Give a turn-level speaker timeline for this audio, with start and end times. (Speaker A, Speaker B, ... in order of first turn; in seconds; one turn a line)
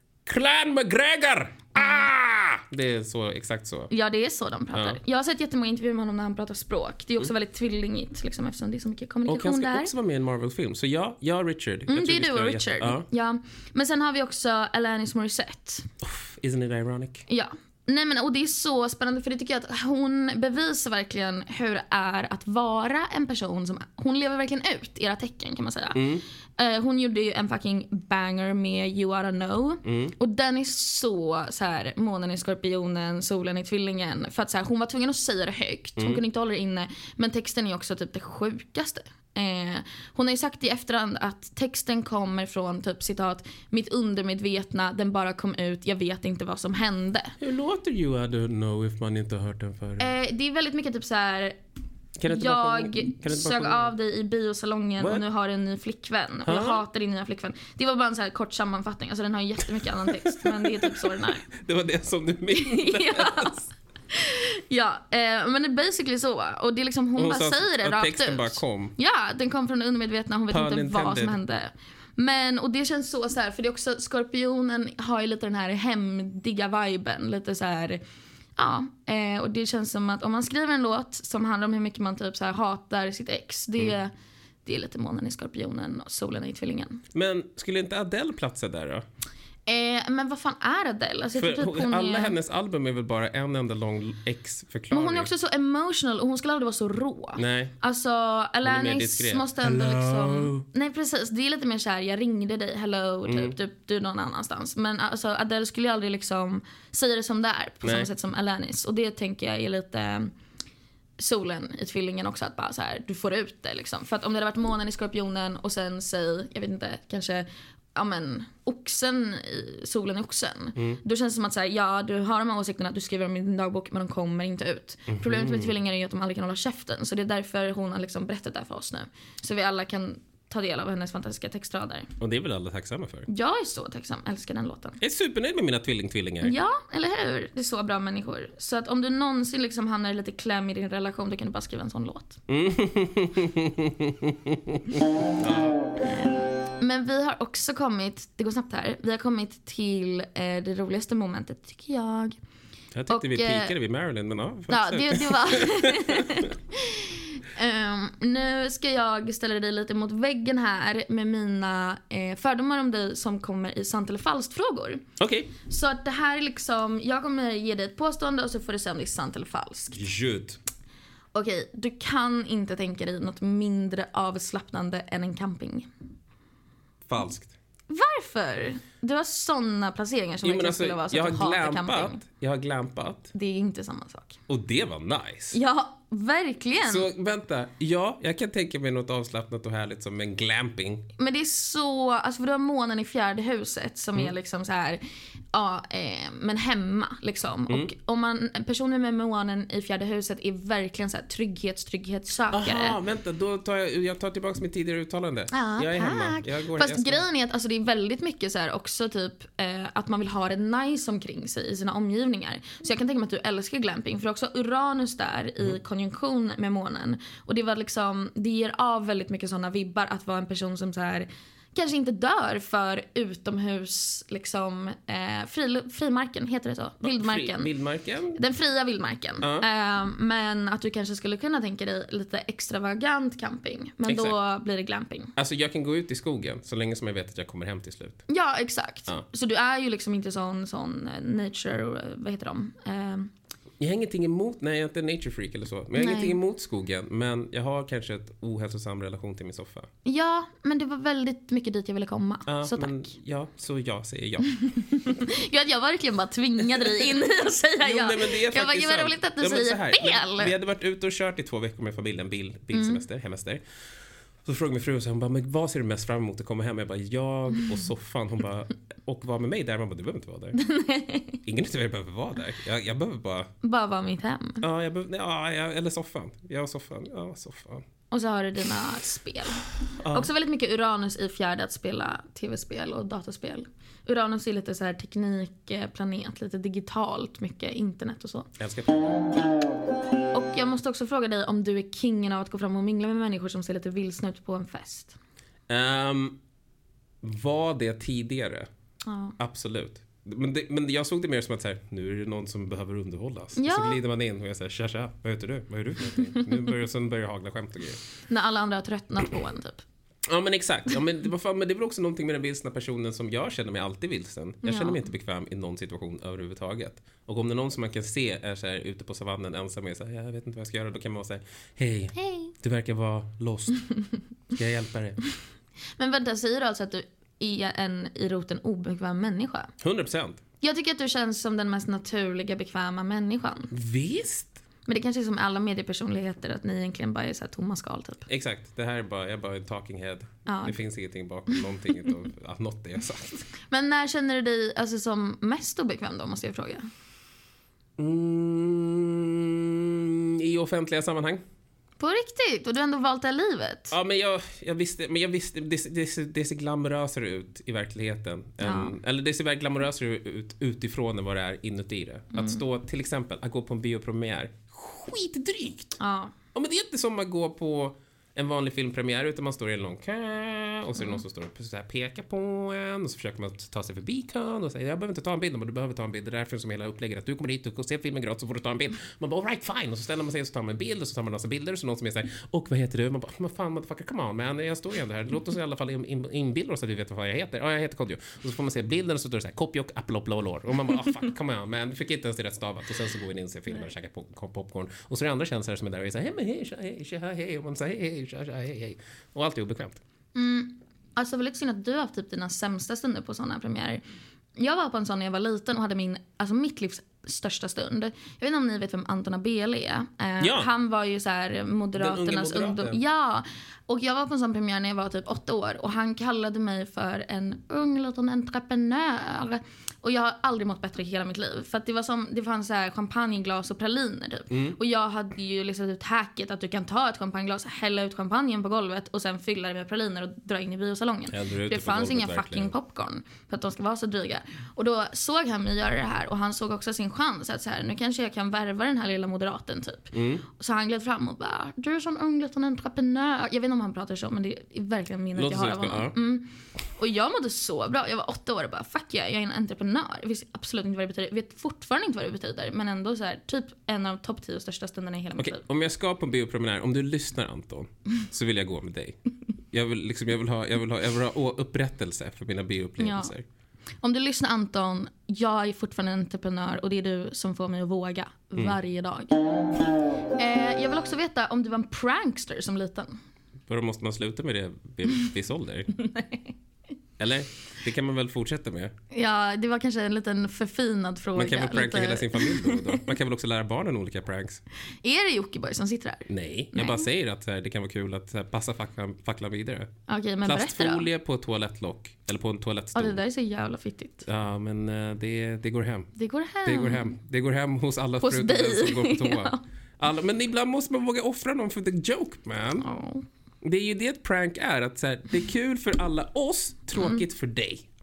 Speaker A: 0.3-3.9
Speaker B: 3.9-9.9
Speaker A: 4.7-5.0
Speaker A: 9.3-13.1
Speaker B: 11.9-15.9
Speaker A: 16.0-17.3
Speaker B: 17.3-47.4
Speaker A: 25.9-26.2
Speaker A: 29.9-30.1
Speaker A: 36.0-36.2
Speaker A: 47.4-50.1
Speaker B: 50.0-51.6
Speaker A: 52.2-53.9
Speaker B: 52.3-61.5
Speaker A: 56.5-56.8
Speaker A: 60.1-63.7
Speaker B: 62.5-78.0
Speaker A: 67.2-69.0
Speaker A: 70.5-71.4
Speaker B: 78.6-84.1
Speaker B: 84.6-87.0
Speaker A: 87.1-89.0
Speaker B: 89.7-92.4
Speaker A: 91.4-95.3
Speaker B: 94.9-110.3
Speaker A: 97.4-97.7
Speaker A: 98.6-100.6
Speaker A: 103.3-103.6
Speaker A: 107.8-108.1
Speaker B: 111.2-132.1
Speaker A: 125.1-125.7
Speaker A: 132.2-133.3
Speaker B: 133.3-135.0
Speaker A: 135.0-136.6
Speaker B: 136.4-142.4
Speaker A: 142.5-145.8
Speaker B: 146.7-152.4
Speaker A: 152.9-156.5
Speaker B: 153.1-153.7
Speaker B: 154.7-165.1
Speaker A: 165.2-165.5
Speaker B: 165.7-170.0
Speaker A: 169.9-170.6
Speaker B: 171.3-175.9
Speaker A: 177.1-177.5
Speaker B: 177.9-182.2
Speaker A: 180.4-183.3
Speaker B: 183.3-184.4
Speaker A: 184.5-185.6
Speaker B: 185.5-187.1
Speaker A: 186.8-191.1
Speaker B: 191.2-195.0
Speaker B: 195.5-203.0
Speaker A: 202.5-207.3
Speaker B: 205.5-227.7
Speaker A: 227.0-228.4
Speaker B: 228.3-235.3
Speaker A: 229.4-229.7
Speaker A: 234.1-234.4
Speaker A: 235.4-238.2
Speaker B: 238.3-243.3
Speaker A: 243.8-249.9
Speaker B: 246.0-246.4
Speaker B: 250.1-253.0
Speaker A: 252.5-254.6
Speaker B: 254.6-260.5
Speaker A: 257.8-263.6
Speaker B: 262.7-263.0
Speaker A: 264.4-270.6
Speaker B: 270.6-271.4
Speaker A: 271.4-273.5
Speaker B: 273.6-274.6
Speaker A: 274.6-277.8
Speaker B: 278.1-288.5
Speaker A: 280.0-280.3
Speaker A: 288.6-289.1
Speaker B: 290.3-295.2
Speaker A: 295.7-296.4
Speaker A: 297.2-298.7
Speaker B: 299.1-299.4
Speaker A: 299.4-308.0
Speaker B: 303.6-304.0
Speaker B: 308.3-309.8
Speaker A: 310.3-323.9
Speaker B: 314.6-315.0
Speaker B: 322.1-322.5
Speaker A: 324.5-325.2
Speaker B: 326.0-329.7
Speaker A: 329.8-330.4
Speaker B: 330.6-333.7
Speaker A: 333.7-334.6
Speaker B: 334.9-338.3
Speaker A: 338.3-343.5
Speaker B: 340.5-340.8
Speaker B: 343.7-346.9
Speaker A: 348.0-351.4
Speaker B: 352.0-353.9
Speaker A: 353.9-366.0
Speaker B: 358.6-359.0
Speaker B: 362.3-362.6
Speaker B: 366.0-366.3
Speaker A: 366.6-400.0
Speaker B: 400.4-404.0
Speaker B: 404.6-455.6
Speaker A: 410.4-410.7
Speaker A: 412.0-413.0
Speaker A: 424.5-424.8
Speaker A: 431.3-432.7
Speaker A: 440.1-440.4
Speaker A: 445.4-446.1
Speaker A: 455.4-459.2
Speaker A: 459.7-463.4
Speaker B: 463.0-463.3
Speaker B: 464.0-469.4
Speaker B: 470.4-473.2
Speaker A: 473.7-475.9
Speaker B: 476.0-476.5
Speaker A: 477.2-478.9
Speaker B: 479.1-483.0
Speaker A: 481.4-484.6
Speaker B: 485.0-487.1
Speaker A: 486.3-489.9
Speaker B: 490.1-491.1
Speaker A: 490.4-493.2
Speaker B: 492.9-494.3
Speaker A: 494.2-496.1
Speaker B: 496.1-497.1
Speaker A: 496.6-502.9
Speaker B: 498.2-499.6
Speaker B: 502.8-503.3
Speaker A: 503.6-507.9
Speaker B: 507.0-507.2